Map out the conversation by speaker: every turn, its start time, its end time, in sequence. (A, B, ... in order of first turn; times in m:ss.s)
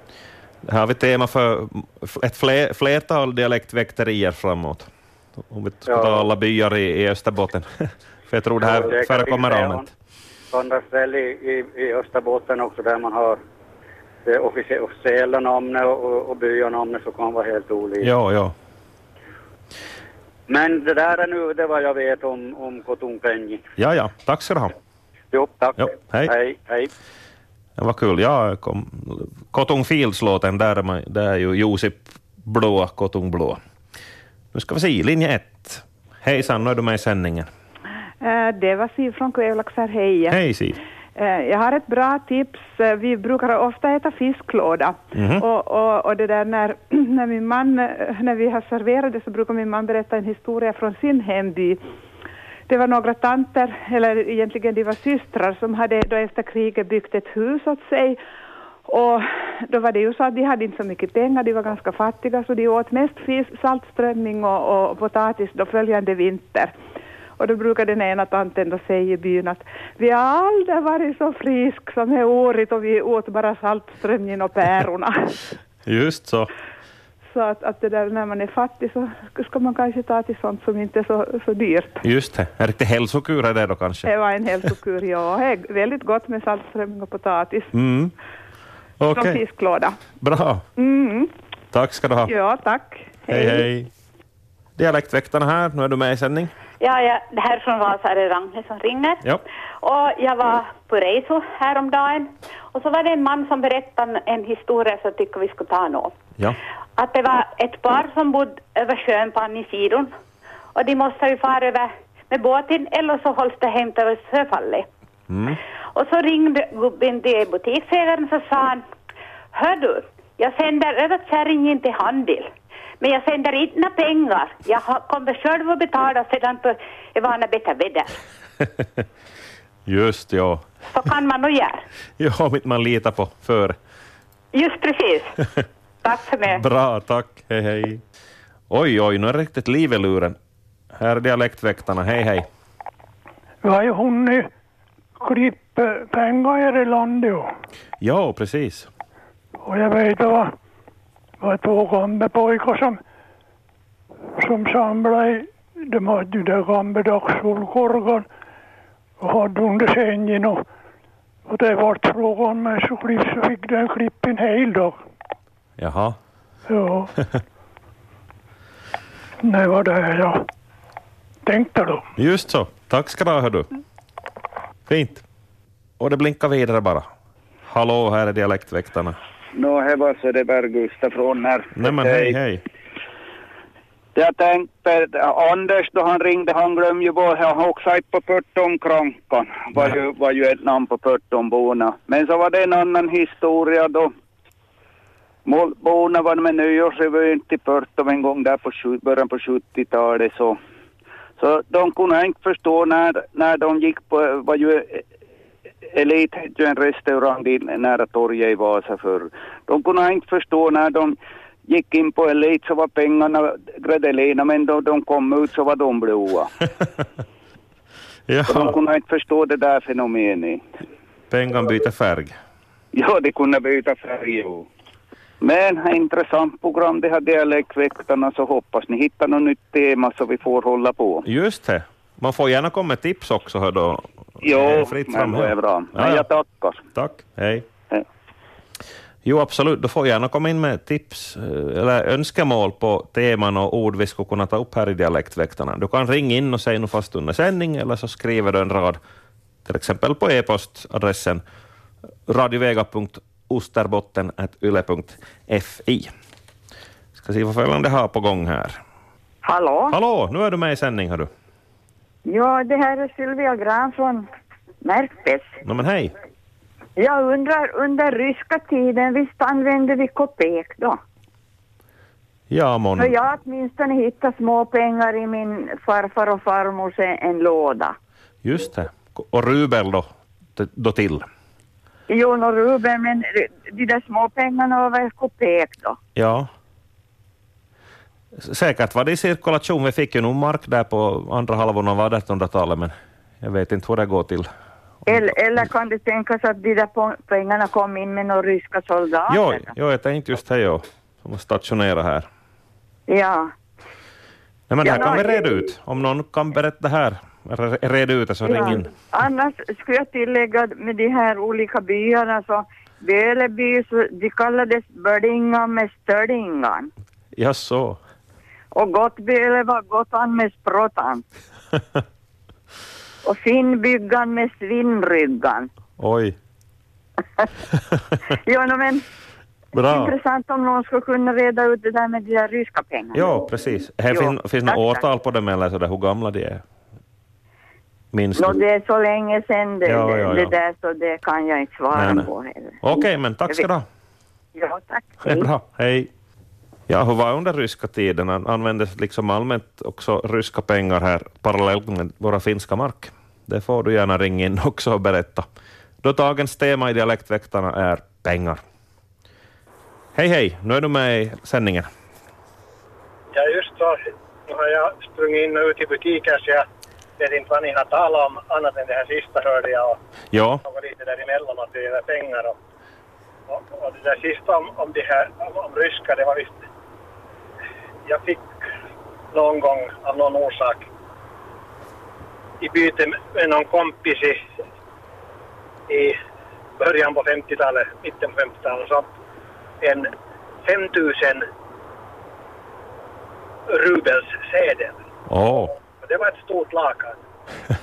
0:00.6-0:09.9 A
0:05.9-0:06.3 B
0:08.6-0:09.9 B
0:10.5-0:13.4 B
0:14.2-0:18.1 B
0:18.0-0:18.5 A
0:20.5-0:23.6 B
0:23.8-0:24.7 A
0:25.3-0:26.9 B
0:25.8-0:26.3 A
0:27.8-0:33.6 A
0:34.5-0:37.5 A
0:38.2-0:40.4 C
0:40.3-0:40.8 A
0:41.2-0:51.8 C
0:45.1-0:45.4 A
0:52.7-0:58.2 C
0:58.9-1:06.7 C
1:07.4-1:15.4 C
1:15.9-1:16.5 A
1:17.3-1:22.0 C
1:22.0-1:24.1 A
1:24.0-1:27.7 C
1:27.7-1:28.1 A
1:29.0-1:29.4 A
1:29.1-1:30.0 C
1:30.2-1:30.6 A
1:30.8-1:31.3 C
1:31.7-1:32.3 A
1:32.3-1:33.7 C
1:33.3-1:33.9 A
1:34.8-1:36.5 A
1:36.8-1:39.2 D
1:39.8-1:46.2 D
1:47.0-1:50.1 D
1:50.8-1:54.9 D
1:55.3-1:55.6 A
1:55.9-1:58.8 D
1:59.5-2:08.2 D
2:09.9-2:10.7 A
2:10.9-2:11.8 D
2:12.2-2:13.8 A
2:14.5-2:15.4 D
2:16.0-2:16.6 D
2:16.5-2:18.0 A
2:18.7-2:20.4 A
2:21.0-2:22.5 A
2:23.6-2:24.5 E
2:25.2-2:27.5 E
2:28.0-2:28.9 A
2:29.6-2:30.6 E
2:31.4-2:33.0 E
2:34.4-2:38.3 E
2:39.2-2:40.7 E
2:41.5-2:45.0 E
2:45.8-2:46.2 A
2:46.7-2:47.1 E
2:49.4-2:50.4 E
2:51.4-2:52.1 E
2:52.2-2:53.7 A
2:54.9-2:55.2 A
2:56.0-2:57.1 A
2:57.7-2:59.2 A
2:59.5-3:02.4 F
3:01.7-3:02.6 A
3:04.2-3:14.1 F
3:15.4-3:20.6 F
3:21.4-3:25.0 F
3:25.9-3:31.2 F
3:31.7-3:36.5 F
3:38.3-3:38.8 A
3:38.5-3:40.6 F
3:41.3-3:42.4 A
3:42.9-3:44.7 F
3:45.4-3:51.2 F
3:51.2-3:56.3 A
3:54.4-3:56.8 F
3:57.0-3:57.7 A
3:59.2-4:09.0 A
4:09.7-4:11.4 A
4:12.3-4:16.1 A
4:17.2-4:18.8 A
4:19.4-4:20.0 G
4:19.9-4:21.3 A
4:22.2-4:24.3 G
4:24.8-4:25.6 G
4:25.6-4:26.1 A
4:27.0-4:31.0 G
4:32.5-4:33.2 A
4:33.0-4:38.0 G
4:38.4-4:41.3 A
4:42.1-4:46.0 G
4:46.2-4:46.5 A
4:48.4-4:54.5 A
4:55.1-4:59.7 G
4:59.3-5:02.3 A
5:03.1-5:03.5 G
5:04.7-5:08.9 A
5:04.8-5:05.6 G
5:08.4-5:16.9 G
5:17.4-5:18.0 A
5:18.7-5:21.2 G
5:23.2-5:25.7 G
5:26.0-5:26.4 A
5:28.5-5:29.0 G
5:29.7-5:30.1 A
5:29.8-5:33.5 G
5:33.1-5:36.6 A
5:34.1-5:35.0 G
5:38.1-5:38.6 A
5:38.4-5:43.7 G
5:39.8-5:40.6 A
5:41.9-5:42.3 A
5:42.8-5:43.9 A
5:44.5-5:45.5 G
5:45.2-5:46.1 A
5:46.9-5:55.5 A
5:56.0-5:58.6 A
6:00.2-6:01.9 A
6:03.3-6:06.7 H
6:07.2-6:10.0 H
6:10.3-6:10.6 A
6:10.6-6:12.6 H
6:13.5-6:16.6 H
6:18.0-6:18.5 H
6:19.3-6:20.9 H
6:22.6-6:24.4 H
6:25.9-6:26.2 H
6:26.8-6:29.1 H
6:29.8-6:30.1 H
6:30.6-6:31.5 H
6:33.7-6:35.0 H
6:35.3-6:35.7 A
6:36.0-6:37.2 H